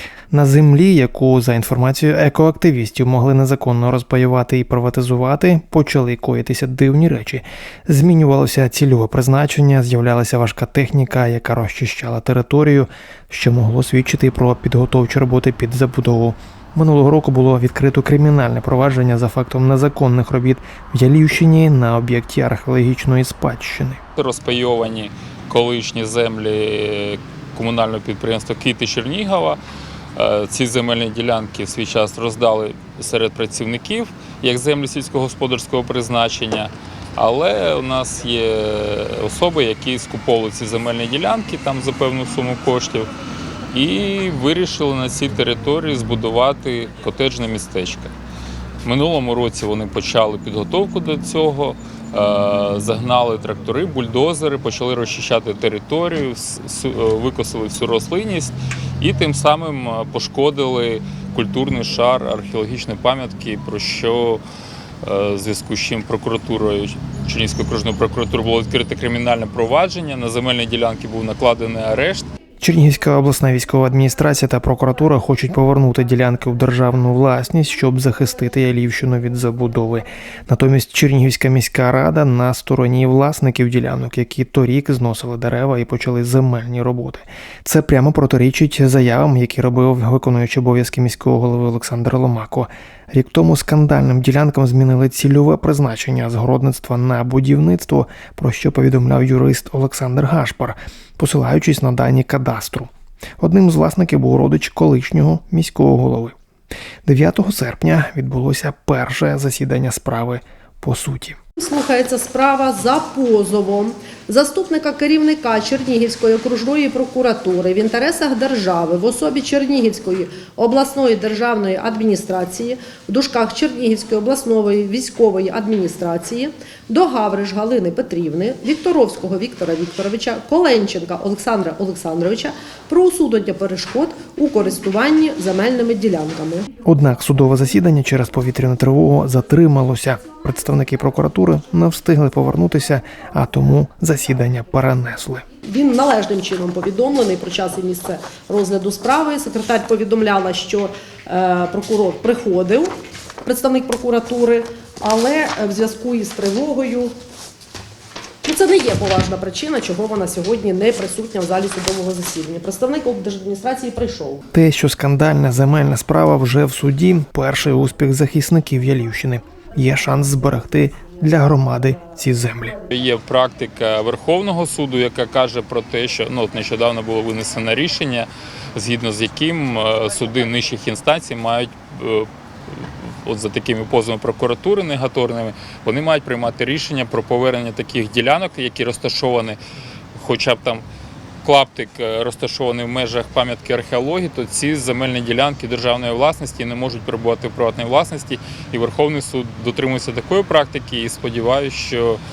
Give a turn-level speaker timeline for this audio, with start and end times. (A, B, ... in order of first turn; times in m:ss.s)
0:00.3-0:24.0 A
0:24.2-0:29.6 B
0:30.2-0:43.1 B
0:43.7-0:48.1 B
0:48.8-1:04.4 B
1:05.0-1:12.3 B
1:12.6-1:46.4 A
1:47.0-1:51.4 A
1:51.6-2:16.7 C
2:16.8-2:25.4 A
2:25.6-2:37.1 C
2:38.4-2:44.4 C
2:44.5-2:52.8 A
2:52.9-3:09.6 B
3:10.1-3:10.8 B
3:11.4-3:22.2 B